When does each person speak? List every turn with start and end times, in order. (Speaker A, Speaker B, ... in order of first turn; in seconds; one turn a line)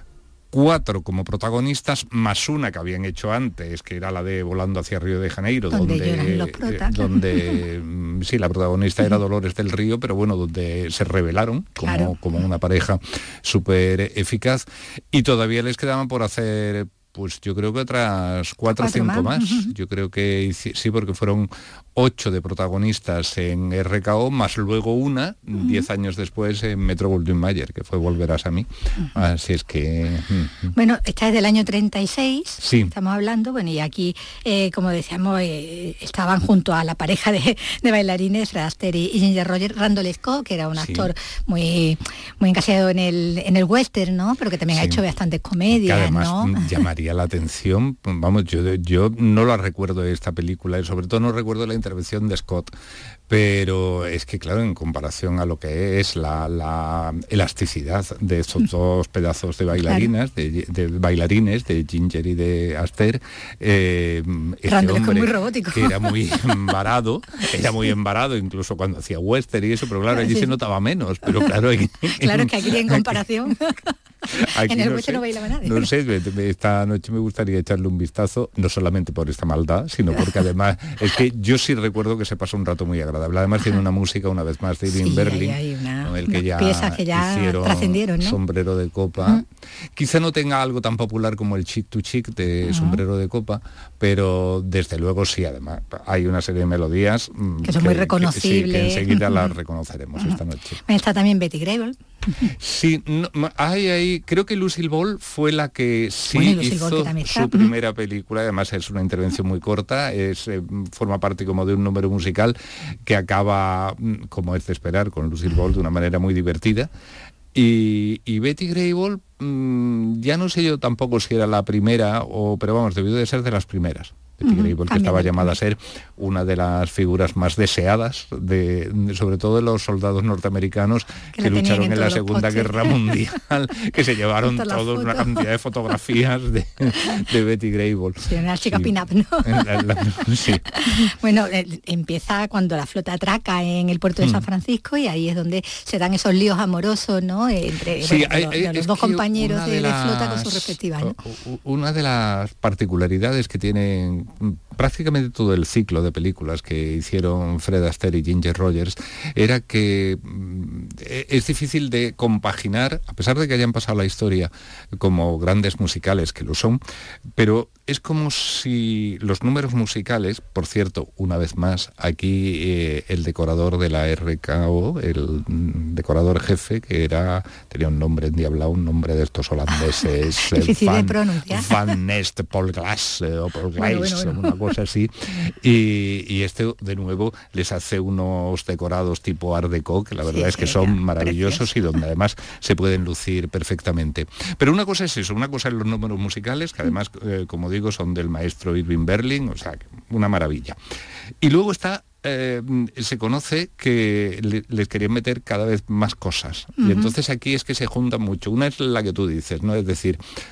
Speaker A: 0.5-30.7
Speaker B: 5.7-7.5
Speaker B: 11.8-12.3
Speaker B: 18.7-19.7
Speaker B: 25.6-25.9
Speaker B: 30.7-46.7
Speaker A: 32.6-32.9
Speaker A: 40.7-41.1
Speaker A: 44.7-45.0
Speaker A: 45.7-52.7
Speaker A: 53.3-73.2
Speaker B: 59.8-60.1
Speaker B: 64.7-66.1
Speaker B: 70.1-70.5
Speaker B: 72.1-73.9
Speaker A: 74.3-100.8
Speaker B: 74.6-75.9
Speaker B: 84.9-88.4
Speaker B: 92.6-93.0
Speaker B: 97.6-99.5
Speaker B: 100.2-102.5
Speaker A: 102.5-116.9
Speaker B: 106.3-107.7
Speaker A: 117.5-140.6
Speaker B: 124.4-125.5
Speaker B: 131.3-133.1
Speaker B: 134.4-135.4
Speaker B: 138.3-139.7
Speaker B: 140.7-151.1
Speaker A: 148.0-166.8
Speaker A: 167.4-200.8
Speaker B: 180.4-181.9
Speaker B: 183.8-184.7
Speaker B: 190.2-191.7
Speaker A: 201.4-210.2
Speaker B: 206.8-207.1